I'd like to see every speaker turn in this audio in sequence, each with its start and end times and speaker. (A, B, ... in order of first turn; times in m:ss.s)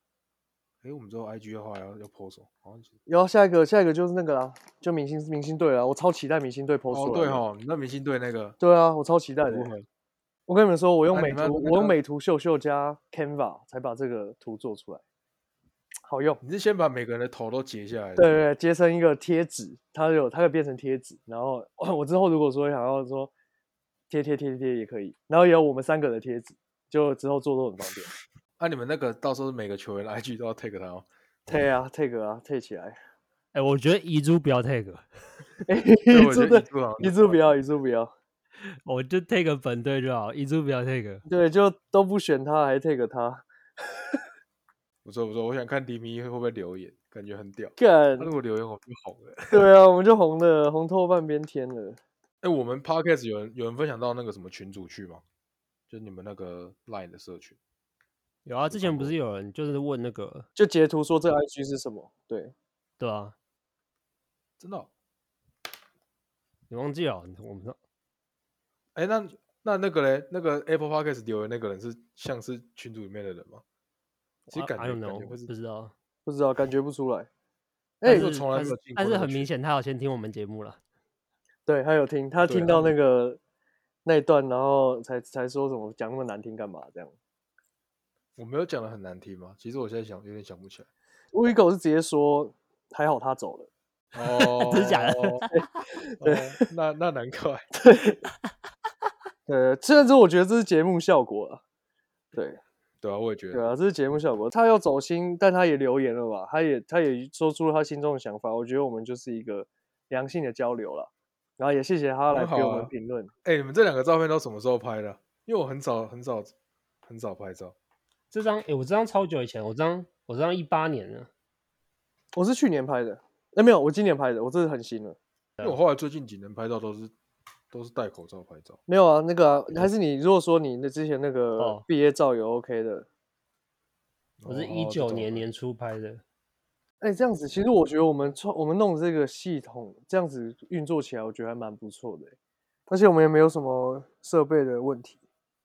0:00.8-0:02.9 A
0:03.0-0:07.4 B
0:06.9-0:08.6 A
0:08.6-0:09.7 B
0:09.4-0:09.8 A
0:10.5-0:15.0 B
0:11.1-0:12.0 A
0:16.0-0:16.4 B
0:16.4-0:18.4 A
0:18.2-0:23.3 B
0:24.1-0:28.1 B
0:28.6-0:31.1 A
0:31.5-0:33.0 B
0:33.5-0:35.6 C
0:35.7-0:38.1 B
0:36.1-0:37.4 A
0:38.8-0:41.2 C
0:41.2-0:44.2 B
0:45.0-0:49.6 A
0:47.8-0:48.3 B
0:49.5-0:52.0 B
0:52.4-0:55.2 A
0:55.9-0:57.6 A
0:58.4-1:00.5 C
0:58.7-0:59.2 A
1:00.6-1:02.5 B
1:03.0-1:03.3 C
1:04.6-1:04.9 A
1:06.7-1:07.8 C
1:08.9-1:13.6 A
1:14.5-1:15.9 C
1:14.5-1:15.5 A
1:16.2-1:17.3 B
1:18.0-1:18.3 B
1:18.0-1:20.8 C
1:18.1-1:19.5 A
1:21.6-1:23.4 B
1:22.4-1:22.9 A
1:24.0-1:27.1 B
1:28.4-1:30.9 A
1:31.3-1:33.7 B
1:34.1-1:35.4 A
1:34.2-1:35.6 C
1:35.5-1:36.6 B
1:36.2-1:37.7 A
1:37.8-1:38.2 B
1:39.4-1:41.6 B
1:42.3-1:42.6 B
1:43.0-1:43.7 A
1:43.5-1:53.3 B
1:52.3-1:52.9 A
1:53.4-1:56.5 A
1:57.0-1:57.7 A
1:58.3-2:01.3 C
2:02.3-2:05.2 B
2:05.6-2:07.1 A
2:07.7-2:08.8 A
2:08.9-2:13.1 B
2:11.6-2:11.8 C
2:14.4-2:15.4 A
2:14.4-2:16.2 C
2:17.0-2:22.3 B
2:22.9-2:25.2 B